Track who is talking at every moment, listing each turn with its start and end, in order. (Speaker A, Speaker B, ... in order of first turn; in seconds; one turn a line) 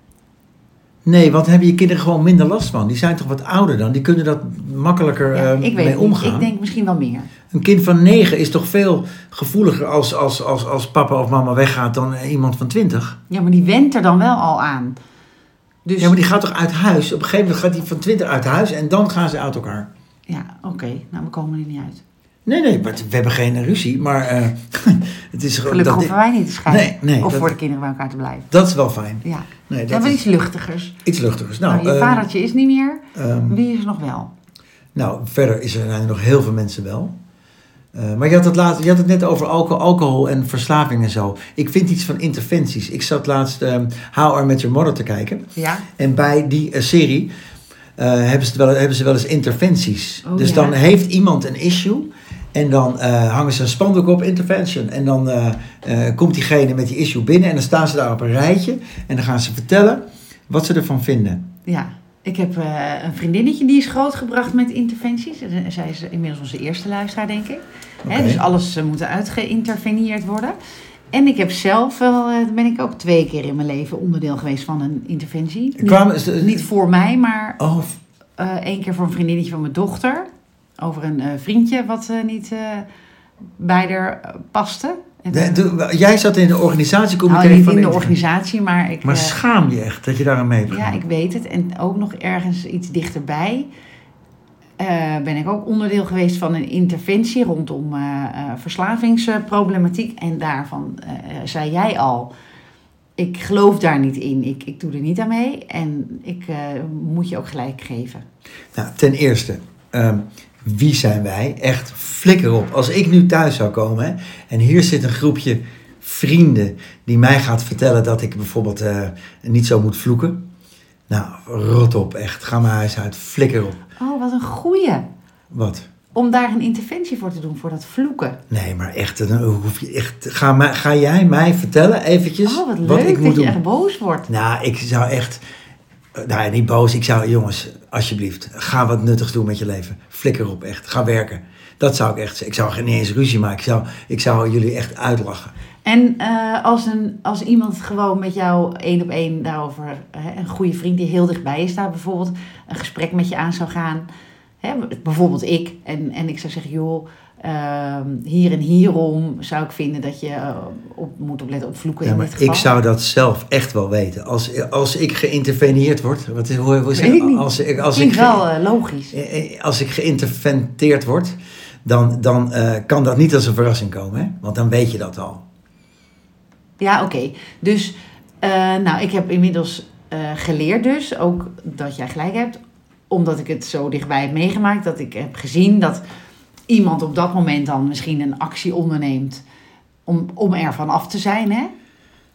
Speaker A: 1.0-6.5
Speaker B: 5.3-7.3
Speaker A: 7.5-13.2
Speaker B: 13.3-15.0
Speaker B: 15.8-16.2
Speaker A: 16.0-19.9
Speaker B: 20.3-22.0
Speaker A: 22.4-26.1
Speaker B: 25.6-28.5
Speaker A: 26.6-27.5
Speaker A: 28.5-30.2
Speaker B: 29.2-31.0
Speaker A: 31.0-32.2
Speaker B: 31.6-34.3
Speaker A: 33.1-33.6
Speaker A: 34.9-37.1
Speaker A: 37.9-47.3
Speaker B: 45.5-45.9
Speaker A: 48.0-61.4
Speaker B: 50.2-50.8
Speaker B: 61.6-70.5
Speaker A: 68.0-68.4
Speaker B: 71.1-77.6
Speaker A: 75.8-76.6
Speaker A: 77.6-77.9
Speaker B: 78.4-80.3
Speaker B: 80.8-82.9
Speaker B: 83.6-85.6
Speaker A: 85.3-88.1
Speaker B: 87.3-89.3
Speaker A: 89.0-91.0
Speaker B: 90.7-93.7
Speaker B: 94.8-102.3
Speaker B: 103.2-108.2
Speaker A: 108.7-120.4
Speaker A: 121.1-123.8
Speaker B: 124.0-125.0
Speaker A: 125.5-125.9
Speaker B: 126.1-128.4
Speaker A: 128.5-133.6
Speaker B: 132.4-134.3
Speaker A: 134.3-135.4
Speaker A: 136.2-145.5
Speaker B: 145.8-154.1
Speaker B: 154.6-162.7
Speaker A: 162.0-168.4
Speaker B: 166.9-169.1
Speaker A: 169.1-175.4
Speaker B: 176.8-186.0
Speaker B: 186.7-189.4
Speaker B: 190.1-191.7